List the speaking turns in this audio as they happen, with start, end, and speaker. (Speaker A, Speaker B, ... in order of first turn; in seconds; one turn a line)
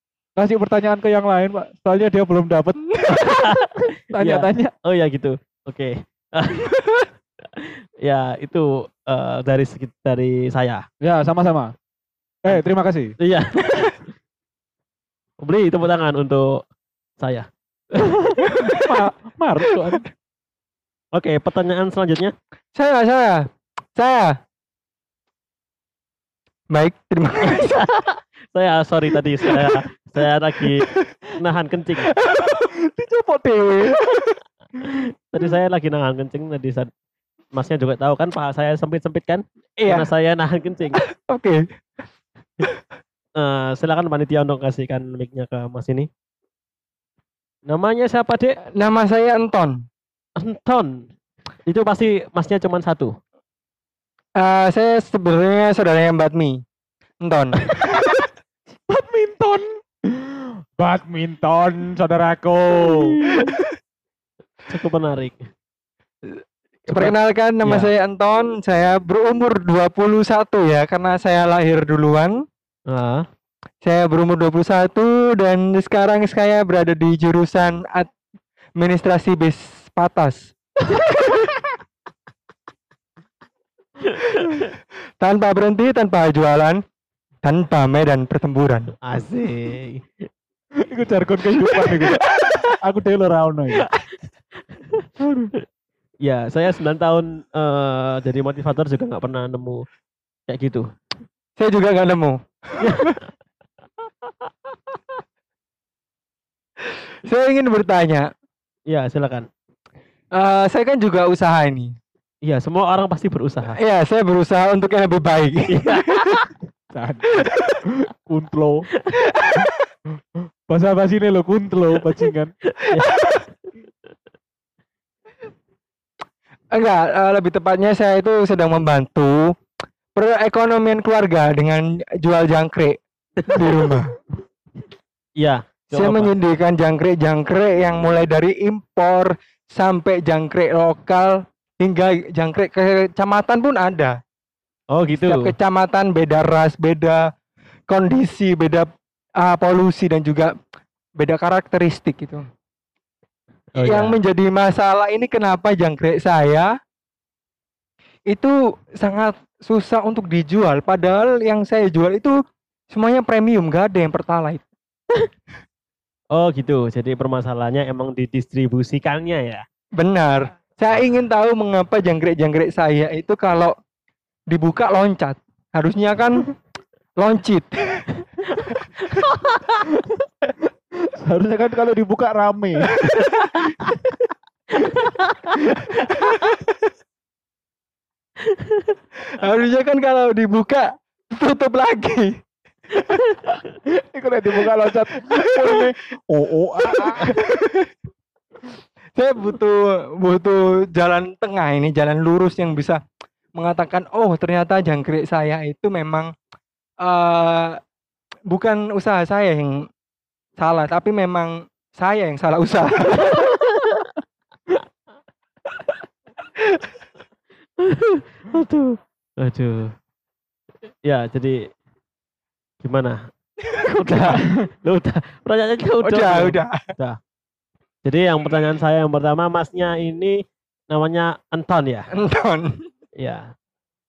Speaker A: 0.4-3.5
Speaker B: 3.1-10.8
Speaker A: 4.1-4.7
Speaker A: 11.0-11.7
Speaker A: 12.4-13.2
Speaker B: 13.2-14.1
Speaker B: 15.4-16.6
Speaker B: 17.2-18.5
Speaker A: 18.4-20.1
Speaker B: 21.1-22.3
Speaker C: 22.8-24.3
Speaker C: 26.7-27.8
Speaker B: 27.4-32.1
Speaker C: 30.7-31.1
Speaker C: 32.1-32.7
Speaker A: 32.8-34.2
Speaker B: 34.9-36.9
Speaker B: 37.5-41.0
Speaker C: 39.8-40.1
Speaker C: 41.0-41.6
Speaker B: 43.4-46.1
Speaker B: 47.7-48.6
Speaker C: 48.8-49.8
Speaker B: 50.4-51.1
Speaker B: 51.7-53.1
Speaker C: 54.4-56.6
Speaker C: 57.2-57.7
Speaker A: 57.8-58.2
Speaker A: 58.9-63.2
Speaker B: 62.9-63.6
Speaker B: 64.7-65.4
Speaker C: 66.3-72.4
Speaker B: 66.9-67.9
Speaker B: 72.9-73.2
Speaker C: 73.8-78.1
Speaker C: 78.8-80.5
Speaker B: 84.1-84.7
Speaker C: 85.2-86.8
Speaker C: 87.4-88.9
Speaker B: 89.1-90.0
Speaker A: 90.8-93.9
Speaker C: 92.0-92.7
Speaker B: 94.8-95.1
Speaker A: 95.2-95.5
Speaker B: 96.2-99.8
Speaker B: 100.5-100.8
Speaker C: 101.6-103.2
Speaker B: 102.8-103.2
Speaker C: 107.2-108.3
Speaker B: 108.9-109.5
Speaker C: 110.4-111.9
Speaker B: 112.4-113.8
Speaker C: 113.7-116.4
Speaker B: 115.7-116.5
Speaker A: 116.9-118.9
Speaker C: 117.5-117.8
Speaker C: 119.3-119.7
Speaker A: 120.7-122.5
Speaker B: 122.8-123.5
Speaker C: 126.7-129.4
Speaker C: 130.2-134.1
Speaker B: 135.4-136.3
Speaker C: 135.9-144.2
Speaker B: 144.9-145.5
Speaker C: 145.1-147.2
Speaker C: 147.9-148.9
Speaker C: 149.4-150.5
Speaker C: 151.2-152.4
Speaker B: 153.8-154.2
Speaker C: 153.8-156.7
Speaker C: 158.3-162.3
Speaker C: 162.9-164.7
Speaker B: 166.3-169.6
Speaker C: 170.0-173.7
Speaker C: 174.5-176.5
Speaker C: 177.2-178.1
Speaker B: 179.1-179.6
Speaker A: 179.8-180.2
Speaker A: 181.2-182.9
Speaker C: 183.0-183.7
Speaker B: 183.6-183.9
Speaker B: 184.8-185.6
Speaker C: 186.1-186.6
Speaker B: 186.2-186.5
Speaker B: 188.4-189.0
Speaker C: 189.4-192.4
Speaker B: 193.1-193.6
Speaker A: 193.8-197.5
Speaker C: 195.3-195.9
Speaker C: 196.9-197.9
Speaker C: 199.2-203.0
Speaker C: 203.5-206.3
Speaker C: 207.0-207.8
Speaker C: 208.5-209.8
Speaker C: 210.6-213.5
Speaker B: 213.3-214.1
Speaker B: 217.8-219.9
Speaker B: 221.0-221.6
Speaker B: 222.8-223.2
Speaker B: 223.7-227.2
Speaker C: 226.0-226.8
Speaker B: 228.0-230.4
Speaker B: 230.9-232.1
Speaker C: 232.1-232.8
Speaker B: 233.2-233.5